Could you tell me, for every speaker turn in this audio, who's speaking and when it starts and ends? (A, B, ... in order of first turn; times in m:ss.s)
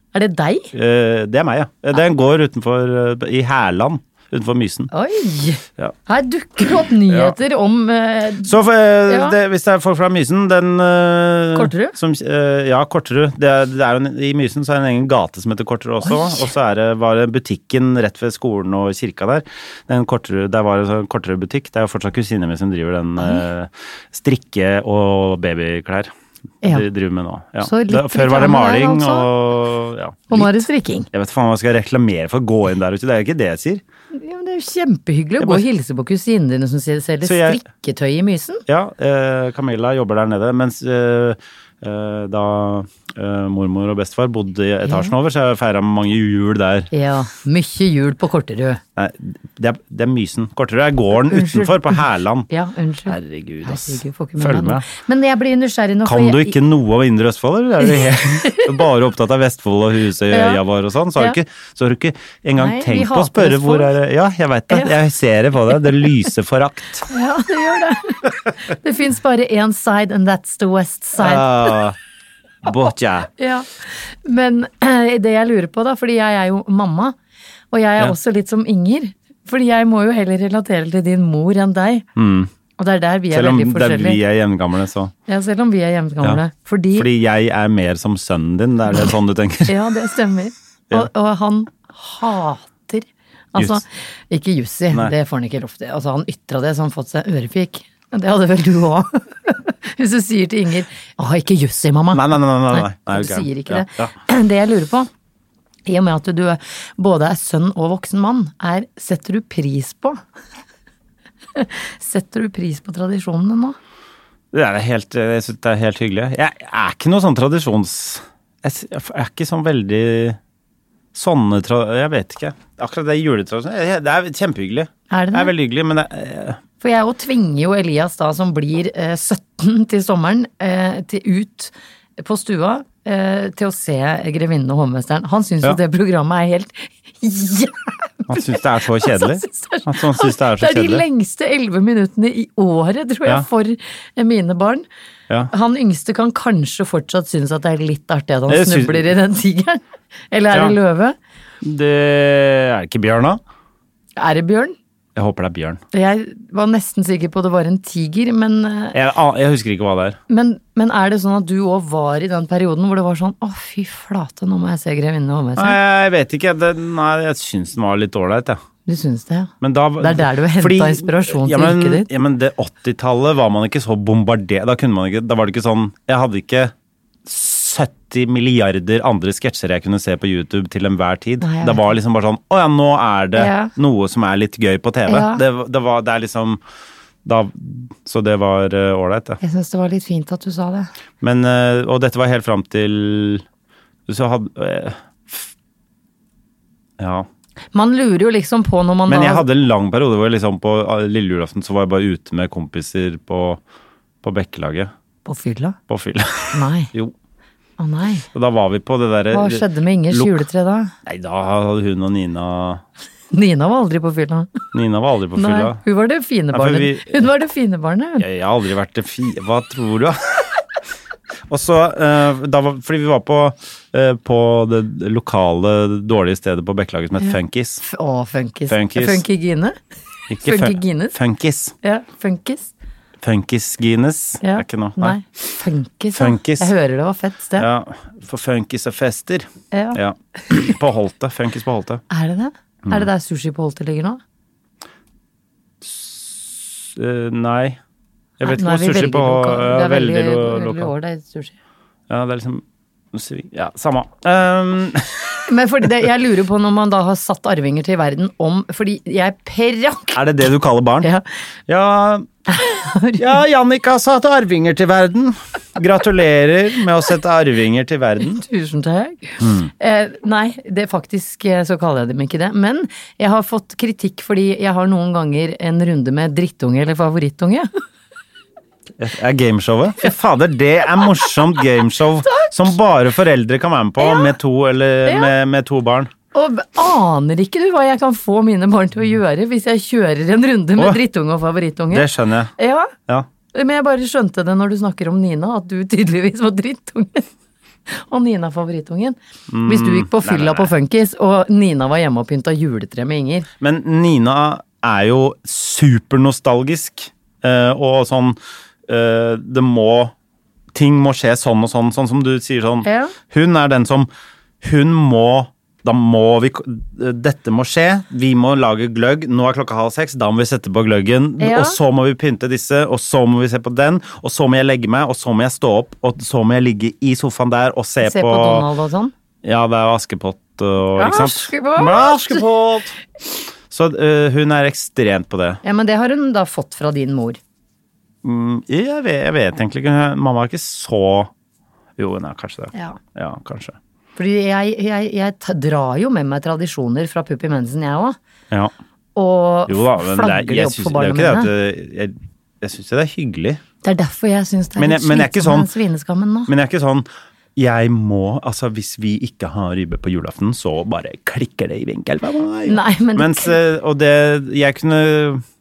0:00.1-0:00.7 A
0:00.7-0:04.9 B
0:04.9-0:08.5 A
0:07.1-0:07.4 B
0:08.4-0:26.1 B
0:09.1-0:09.4 A
0:11.5-0:12.0 A
0:23.2-0:23.4 A
0:26.6-0:33.8 B
0:27.6-0:29.3 A
0:30.3-0:31.1 A
0:34.1-0:38.6 A
0:35.4-0:35.6 B
0:37.2-0:37.6 B
0:38.7-0:46.9 B
0:44.8-0:45.1 A
0:46.9-0:48.8 A
0:49.0-0:52.5 B
0:51.3-0:56.6 A
0:53.1-0:54.8 B
0:56.0-1:07.1 B
0:57.8-0:58.7 A
1:00.3-1:00.6 A
1:02.6-1:04.0 A
1:07.1-1:11.8 A
1:11.2-1:12.0 B
1:12.6-1:13.3 B
1:13.4-1:17.2 A
1:17.7-1:22.1 A
1:22.2-1:22.5 B
1:22.8-1:24.2 A
1:23.3-1:25.1 B
1:25.3-1:27.1 A
1:26.9-1:29.8 B
1:29.7-1:45.1 A
1:33.6-1:33.8 B
1:42.1-1:44.1 B
1:45.9-1:50.2 A
1:51.6-1:53.8 A
1:54.5-2:00.4 B
2:01.1-2:06.6 B
2:05.1-2:05.5 A
2:06.8-2:24.8 A
2:18.3-2:21.0 B
2:25.5-2:31.2 A
2:28.5-2:29.1 B
2:30.5-2:30.8 B
2:31.6-2:33.4 B
2:34.2-2:34.8 A
2:35.2-2:35.8 B
2:35.9-2:39.0 A
2:38.9-2:40.2 B
2:40.3-2:45.8 A
2:45.6-2:48.6 B
2:48.9-2:52.1 A
2:49.6-2:56.7 B
2:57.3-3:06.6 B
3:01.4-3:02.0 A
3:03.4-3:03.7 A
3:05.1-3:05.4 A
3:07.2-3:09.4 B
3:09.4-3:10.9 A
3:11.2-3:13.4 B
3:14.1-3:15.5 B
3:17.0-3:17.3 B
3:17.7-3:19.5 A
3:19.1-3:23.6 B
3:24.2-3:24.9 B
3:25.3-3:25.8 A
3:25.9-3:27.1 B
3:26.5-3:26.9 A
3:27.8-3:28.3 A
3:28.3-3:30.4 B
3:29.3-3:30.9 A
3:31.1-3:32.8 B
3:33.3-3:34.5 A
3:34.7-3:35.8 B
3:35.4-3:38.3 A
3:36.5-3:37.2 B
3:38.2-3:40.5 B
3:41.5-3:47.8 B
3:47.2-3:49.8 A
3:48.7-3:49.2 B
3:50.3-3:51.8 B
3:50.4-3:51.2 A
3:51.8-3:52.7 A
3:53.2-3:55.2 B
3:54.4-3:57.7 A
3:56.1-3:56.7 B
3:57.6-4:02.0 B
3:59.7-4:00.8 A
4:02.1-4:04.2 A
4:05.8-4:07.8 B
4:08.4-4:10.9 B
4:08.4-4:11.6 A
4:12.1-4:15.4 B
4:15.5-4:20.2 A
4:20.1-4:21.1 B
4:21.7-4:22.3 B
4:22.5-4:23.4 A
4:23.2-4:28.4 B
4:28.3-4:37.7 A
4:29.4-4:29.7 B
4:39.0-4:46.1 B
4:42.3-4:42.6 A
4:44.0-4:44.3 A
4:45.0-4:45.3 A
4:46.3-4:52.9 A
4:51.9-4:52.5 B
4:53.5-4:57.3 A
4:57.9-5:03.5 A
4:59.5-5:00.7 B
5:03.6-5:10.1 B
5:10.7-5:14.1 B
5:12.8-5:13.2 A
5:14.6-5:28.7 B
5:21.4-5:21.8 A
5:28.0-5:29.1 A
5:29.4-5:33.0 B
5:31.0-5:32.4 A
5:33.7-5:35.6 B
5:35.6-5:37.4 A
5:38.2-5:41.3 B
5:42.0-5:43.8 B
5:42.7-5:43.0 A
5:44.2-5:48.2 A
5:49.2-5:51.5 A
5:49.7-5:53.6 B
5:53.8-5:56.5 A
5:54.8-5:55.7 B
5:56.5-6:05.4 B
6:02.7-6:03.6 A